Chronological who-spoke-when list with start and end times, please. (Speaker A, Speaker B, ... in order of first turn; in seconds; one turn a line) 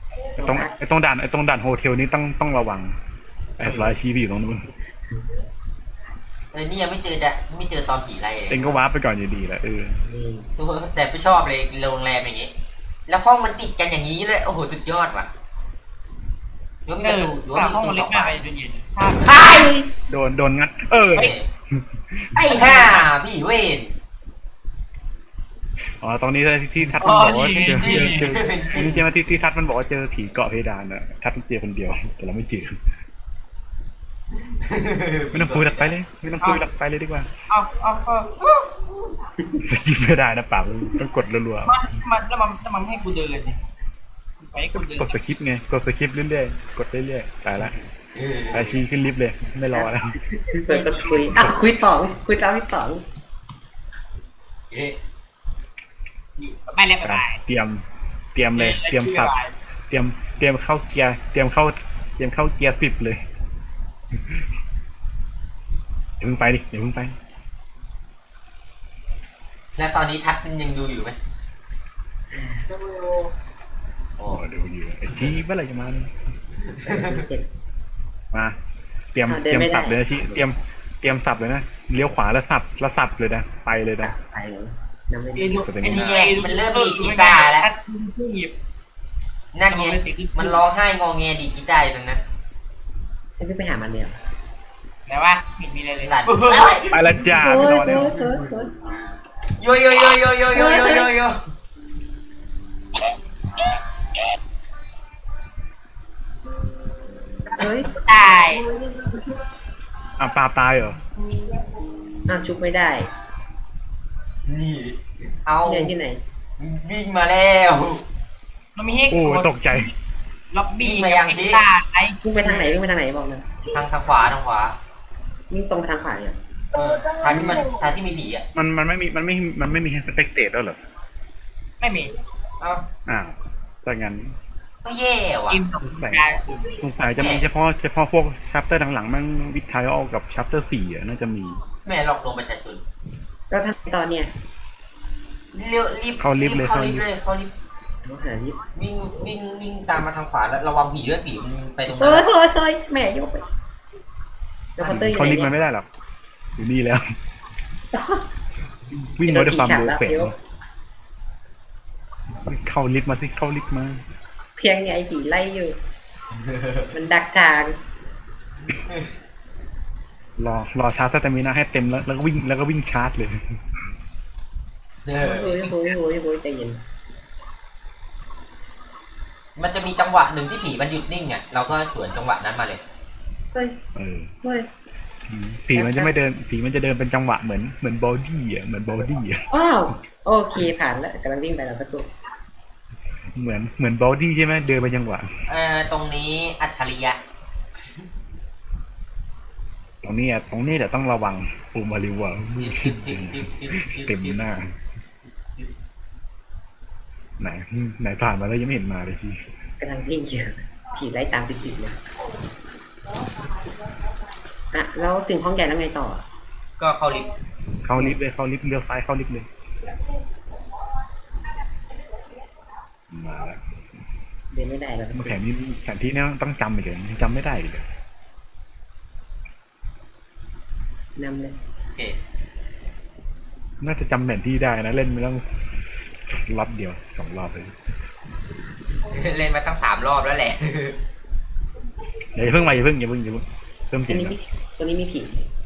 Speaker A: 0.4-2.9
Speaker B: 0.4-0.7
Speaker A: 3.6-4.6
Speaker C: 3.6-3.9
Speaker D: 6.5-8.8
Speaker A: 8.5-10.0
Speaker B: 10.1-10.5
Speaker D: 10.6-12.5
Speaker D: 13.1-15.3
Speaker D: 16.9-18.4
Speaker C: 17.0-19.6
Speaker E: 19.3-19.7
Speaker B: 19.5-19.9
Speaker A: 20.1-23.0
Speaker D: 21.1-21.4
Speaker D: 22.4-23.9
Speaker C: 22.6-23.0
Speaker A: 26.0-32.7
Speaker C: 27.0-28.2
Speaker D: 27.8-29.0
Speaker D: 34.7-35.9
Speaker A: 35.3-37.3
Speaker C: 37.5-38.8
Speaker A: 39.6-41.8
Speaker C: 41.6-43.6
Speaker C: 44.4-45.1
Speaker A: 44.8-47.7
Speaker D: 48.1-48.8
Speaker A: 48.5-50.1
Speaker B: 49.7-53.0
Speaker C: 50.7-51.5
Speaker D: 54.7-55.0
Speaker C: 56.4-57.4
Speaker A: 57.0-59.3
Speaker C: 58.5-59.5
Speaker A: 59.9-63.2
Speaker A: 66.2-67.1
Speaker D: 69.7-71.2
Speaker B: 72.3-72.7
Speaker E: 72.7-73.3
Speaker A: 74.3-76.1
Speaker D: 76.8-77.2
Speaker B: 76.8-77.5
Speaker A: 79.1-84.1
Speaker B: 79.3-80.0
Speaker B: 84.0-85.6
Speaker C: 85.3-88.5
Speaker A: 85.6-86.2
Speaker D: 85.8-87.7
Speaker D: 89.5-92.2
Speaker C: 89.7-90.6
Speaker B: 93.4-94.2
Speaker C: 95.1-96.7
Speaker D: 96.0-96.8
Speaker E: 96.5-96.9
Speaker A: 96.9-98.4
Speaker B: 97.3-98.7
Speaker D: 99.6-101.4
Speaker B: 100.5-101.1
Speaker B: 107.6-107.9
Speaker C: 108.0-108.6
Speaker B: 108.5-109.2
Speaker A: 110.2-111.0
Speaker B: 112.3-113.1
Speaker D: 114.5-115.9
Speaker B: 115.6-116.2
Speaker D: 116.6-118.0
Speaker C: 118.7-119.9
Speaker A: 119.1-119.9
Speaker C: 120.5-122.7
Speaker D: 120.9-121.6
Speaker B: 122.2-123.4
Speaker D: 123.7-124.8
Speaker B: 125.5-126.4
Speaker D: 126.7-128.4
Speaker E: 127.2-127.7
Speaker A: 128.5-130.8
Speaker C: 131.8-132.1
Speaker D: 132.6-132.8
Speaker A: 133.1-134.3
Speaker D: 134.8-135.6
Speaker C: 135.5-136.8
Speaker A: 135.8-136.2
Speaker A: 136.8-141.6
Speaker D: 137.2-137.5
Speaker D: 141.8-142.8
Speaker B: 143.5-144.3
Speaker D: 145.5-147.5
Speaker A: 146.2-147.1
Speaker B: 148.0-148.6
Speaker D: 148.7-152.2
Speaker B: 151.9-153.4
Speaker B: 154.8-155.5
Speaker A: 154.8-155.9
Speaker A: 156.6-157.0
Speaker B: 157.9-158.2
Speaker A: 158.9-160.3
Speaker B: 159.2-160.3
Speaker A: 162.4-164.0
Speaker B: 164.6-165.8
Speaker B: 166.9-167.8
Speaker A: 170.4-173.4
Speaker D: 175.0-175.5
Speaker B: 175.2-176.8
Speaker C: 175.5-175.9
Speaker D: 179.6-182.8
Speaker A: 183.9-184.3
Speaker B: 184.4-184.7
Speaker A: 185.3-189.4
Speaker B: 185.7-186.1
Speaker B: 189.5-192.1
Speaker A: 193.3-195.3
Speaker D: 195.5-197.2
Speaker A: 200.0-204.7
Speaker D: 202.6-204.4
Speaker A: 207.4-209.4
Speaker B: 209.8-211.9
Speaker B: 214.7-216.2
Speaker D: 216.9-217.3
Speaker A: 217.8-219.5
Speaker A: 223.1-223.6
Speaker B: 224.5-225.4
Speaker A: 225.1-227.8
Speaker B: 231.2-231.6
Speaker A: 233.8-237.7
Speaker D: 239.0-241.0
Speaker A: 242.3-244.4
Speaker B: 244.1-245.4